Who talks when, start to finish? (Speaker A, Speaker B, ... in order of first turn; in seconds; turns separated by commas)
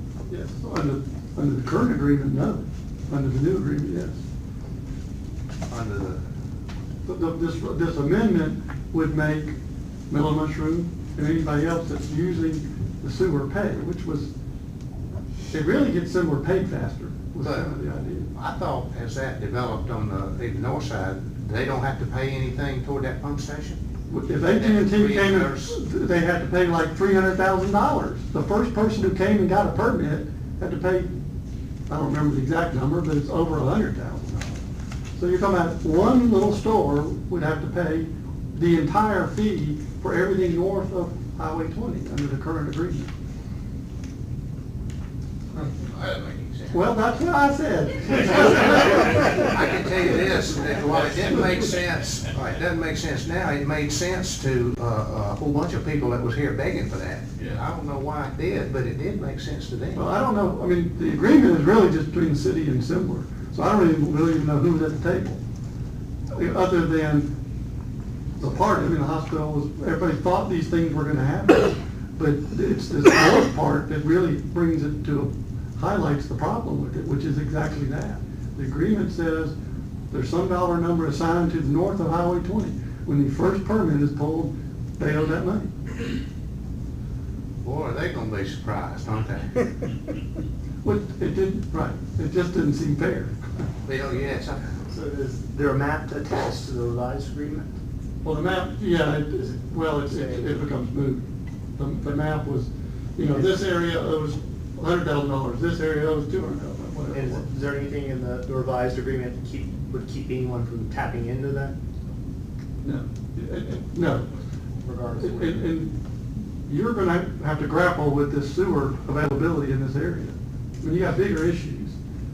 Speaker A: 0.3-4.2, Speaker B: 5.7-6.3, Speaker A: 7.0-9.6, Speaker A: 10.1-14.3, Speaker A: 15.5-18.3, Speaker B: 17.4-17.7, Speaker B: 18.3-23.8, Speaker A: 24.1-31.1, Speaker B: 24.6-25.8, Speaker A: 31.9-34.5, Speaker A: 35.1-43.1, Speaker B: 45.5-46.9, Speaker A: 46.7-49.5, Speaker B: 48.8-60.0, Speaker A: 60.0-65.4, Speaker A: 66.3-67.3, Speaker A: 68.4-79.5, Speaker A: 80.1-85.7, Speaker B: 87.6-89.6, Speaker A: 90.8-93.5, Speaker B: 93.8-94.7, Speaker C: 94.9-97.8, Speaker A: 98.2-107.5, Speaker C: 100.1-100.7, Speaker C: 107.1-111.8, Speaker A: 112.8-114.3, Speaker C: 114.8-115.7, Speaker A: 115.1-116.0, Speaker A: 116.6-122.0